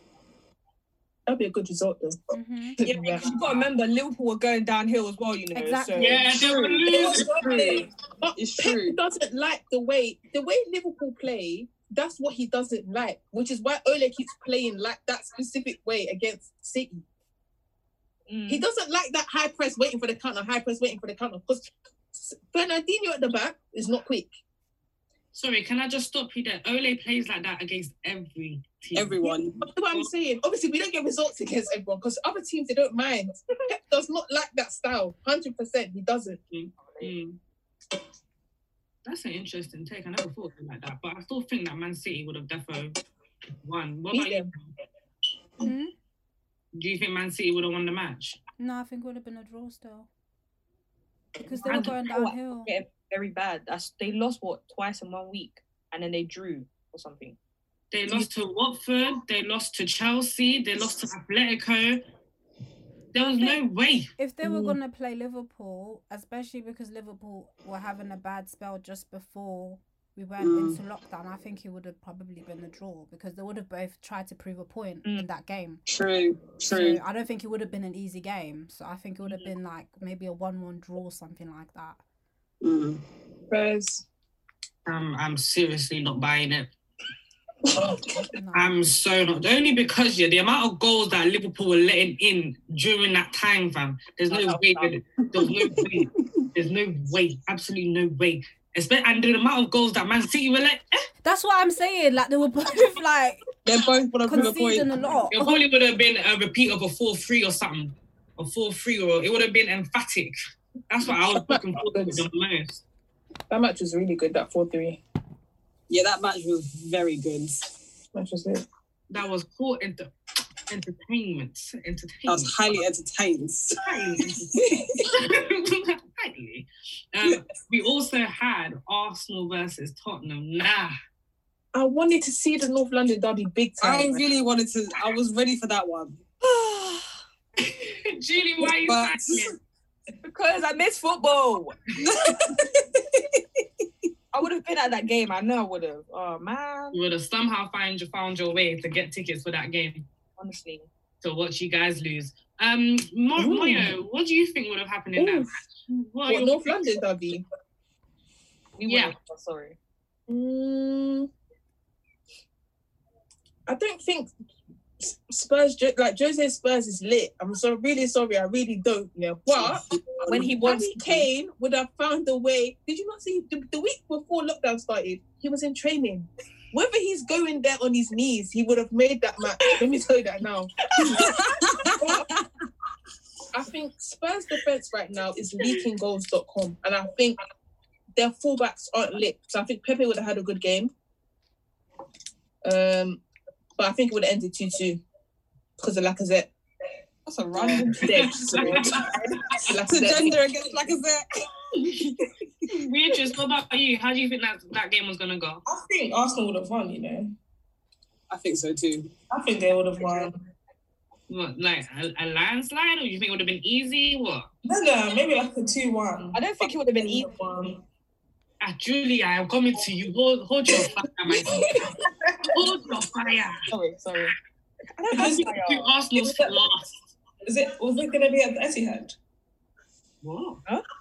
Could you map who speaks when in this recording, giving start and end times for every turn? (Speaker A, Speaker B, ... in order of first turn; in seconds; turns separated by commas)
Speaker A: 1.3-2.2, Speaker B: 2.3-2.8, Speaker A: 2.8-3.3, Speaker C: 2.8-6.9, Speaker B: 5.5-6.2, Speaker D: 6.0-7.4, Speaker E: 6.9-7.9, Speaker F: 7.5-7.8, Speaker A: 8.2-17.0, Speaker F: 8.4-9.0, Speaker C: 18.3-18.6, Speaker A: 18.5-24.3, Speaker D: 25.3-29.2, Speaker F: 28.9-29.6, Speaker A: 29.2-36.4, Speaker D: 36.5-37.4, Speaker C: 36.8-37.1, Speaker D: 39.1-43.0, Speaker D: 43.6-44.7, Speaker A: 44.1-44.5, Speaker B: 45.6-45.9, Speaker D: 46.7-48.4, Speaker B: 48.6-50.1, Speaker B: 51.4-52.7, Speaker C: 51.6-57.4, Speaker D: 57.9-62.0, Speaker D: 63.1-64.1, Speaker B: 64.2-75.8, Speaker F: 64.5-64.7, Speaker F: 70.4-70.8, Speaker F: 75.9-77.0, Speaker B: 76.7-82.0, Speaker F: 82.6-83.0, Speaker A: 83.5-84.0, Speaker D: 84.9-86.7, Speaker B: 88.3-88.8, Speaker D: 88.5-101.0, Speaker C: 94.3-95.0, Speaker B: 101.2-103.4, Speaker F: 103.7-105.0, Speaker B: 104.3-105.6, Speaker D: 105.3-110.3, Speaker D: 110.9-112.8, Speaker A: 111.0-112.2, Speaker A: 113.5-115.0, Speaker F: 115.9-117.7, Speaker A: 118.1-118.6, Speaker D: 119.1-120.1, Speaker D: 120.7-122.6, Speaker F: 122.3-124.7, Speaker D: 123.8-130.9, Speaker A: 131.7-134.2, Speaker F: 133.8-136.2, Speaker C: 136.7-137.0, Speaker D: 137.6-139.5, Speaker F: 138.6-139.5, Speaker C: 140.2-141.8, Speaker F: 142.0-143.4, Speaker C: 144.3-147.0, Speaker D: 146.9-150.1, Speaker C: 150.4-150.9, Speaker D: 151.2-157.0, Speaker A: 153.4-153.9, Speaker A: 155.2-155.5, Speaker A: 156.3-157.4, Speaker C: 158.8-159.8, Speaker D: 158.8-159.1, Speaker A: 160.3-161.3, Speaker A: 163.7-164.3, Speaker A: 165.0-181.3, Speaker C: 170.3-171.2, Speaker F: 181.2-182.4, Speaker A: 182.0-182.3, Speaker A: 183.5-187.4, Speaker A: 188.2-190.9, Speaker A: 192.6-193.2, Speaker A: 193.8-195.0, Speaker A: 195.8-196.5, Speaker C: 197.3-198.7, Speaker F: 197.5-198.0, Speaker A: 197.7-199.1, Speaker D: 197.9-199.0, Speaker A: 199.6-200.4, Speaker F: 199.9-201.3, Speaker D: 202.7-205.6, Speaker E: 205.7-207.3, Speaker F: 208.3-209.2, Speaker E: 209.3-210.4, Speaker D: 211.3-214.5, Speaker E: 214.7-217.8, Speaker C: 216.3-217.3, Speaker D: 218.6-221.7, Speaker E: 221.3-222.0, Speaker D: 222.5-223.6, Speaker C: 223.7-224.3, Speaker C: 225.0-225.9, Speaker E: 225.1-225.5, Speaker D: 225.2-226.9, Speaker E: 226.2-226.6, Speaker E: 227.4-229.2, Speaker D: 230.2-230.6